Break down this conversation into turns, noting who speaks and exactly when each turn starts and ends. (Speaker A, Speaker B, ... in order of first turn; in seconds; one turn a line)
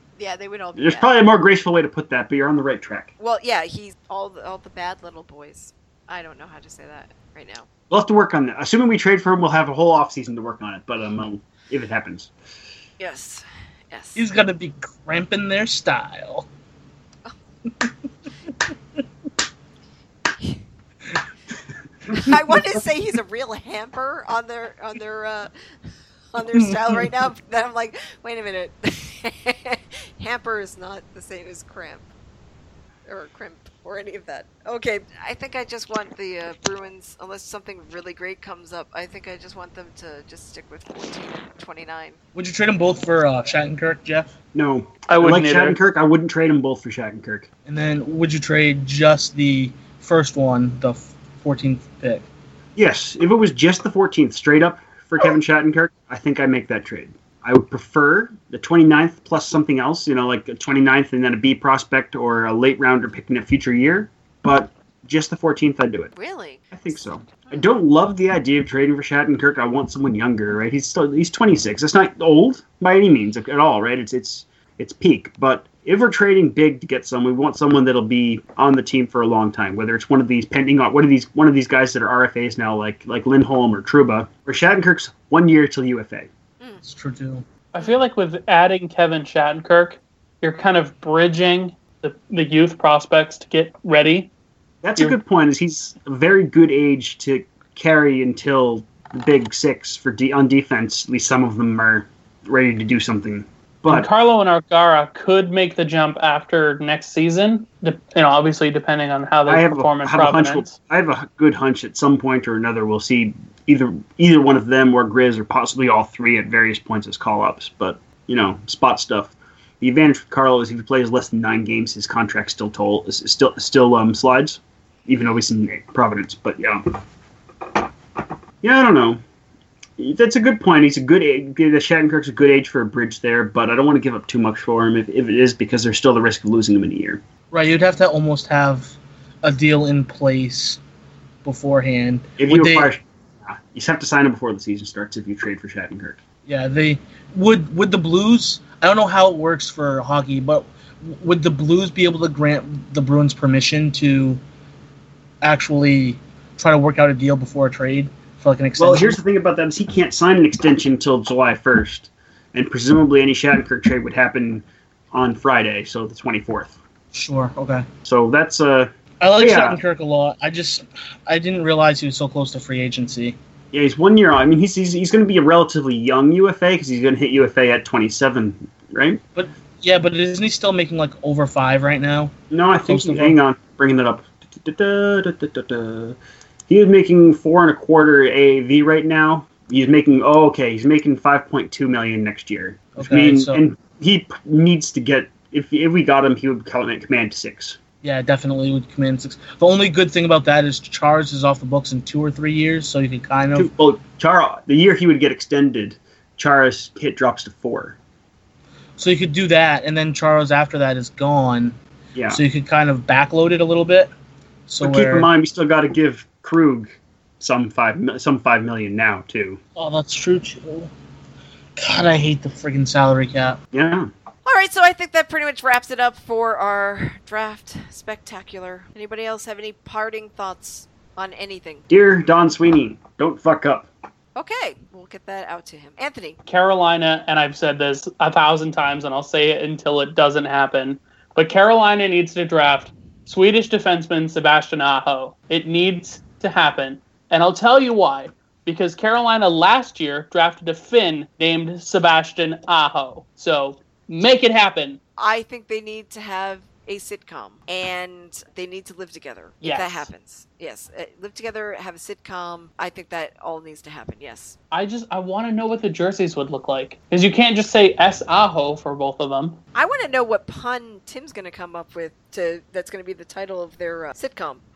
Speaker A: 0.2-1.1
Speaker B: 0.8-3.1
Speaker A: 3.2-7.7
Speaker B: 7.9-12.3
Speaker A: 13.0-14.2
Speaker C: 14.2-16.5
Speaker A: 22.1-25.5
Speaker A: 26.3-32.1
Speaker C: 26.5-27.1
Speaker A: 33.1-42.2
Speaker C: 42.4-44.3
Speaker B: 44.5-47.5
Speaker D: 45.1-45.8
Speaker C: 47.7-52.2
Speaker B: 52.8-66.1
Speaker A: 66.1-66.7
Speaker B: 66.7-86.3
Speaker A: 67.4-67.7
Speaker C: 86.8-87.5
Speaker D: 87.7-94.3
Speaker B: 94.8-104.1
Speaker D: 103.9-110.7
Speaker B: 109.5-127.0
Speaker B: 128.6-129.2
Speaker B: 130.0-137.2
Speaker C: 137.5-140.8
Speaker C: 141.4-142.9
Speaker B: 142.4-146.2
Speaker C: 146.5-154.4
Speaker C: 155.4-159.2
Speaker B: 158.8-166.8
Speaker C: 167.1-167.8
Speaker B: 168.1-169.8
Speaker C: 169.2-173.4
Speaker B: 173.7-179.2
Speaker C: 179.3-182.3
Speaker B: 182.5-186.2
Speaker C: 182.9-183.4
Speaker B: 186.7-197.8
Speaker C: 193.0-193.6
Speaker C: 198.0-203.7
Speaker B: 203.6-208.0
Speaker C: 209.0-211.8
Speaker B: 212.2-212.4
Speaker C: 212.3-214.1
Speaker C: 214.7-215.3
Speaker B: 214.8-219.6
Speaker C: 219.8-220.9
Speaker C: 221.8-223.6
Speaker B: 223.7-224.1
Speaker A: 224.4-231.9
Speaker B: 231.9-233.9
Speaker A: 234.4-236.4
Speaker D: 236.5-255.0
Speaker A: 255.2-264.6
Speaker D: 259.6-260.1
Speaker D: 264.7-269.6
Speaker A: 269.8-274.6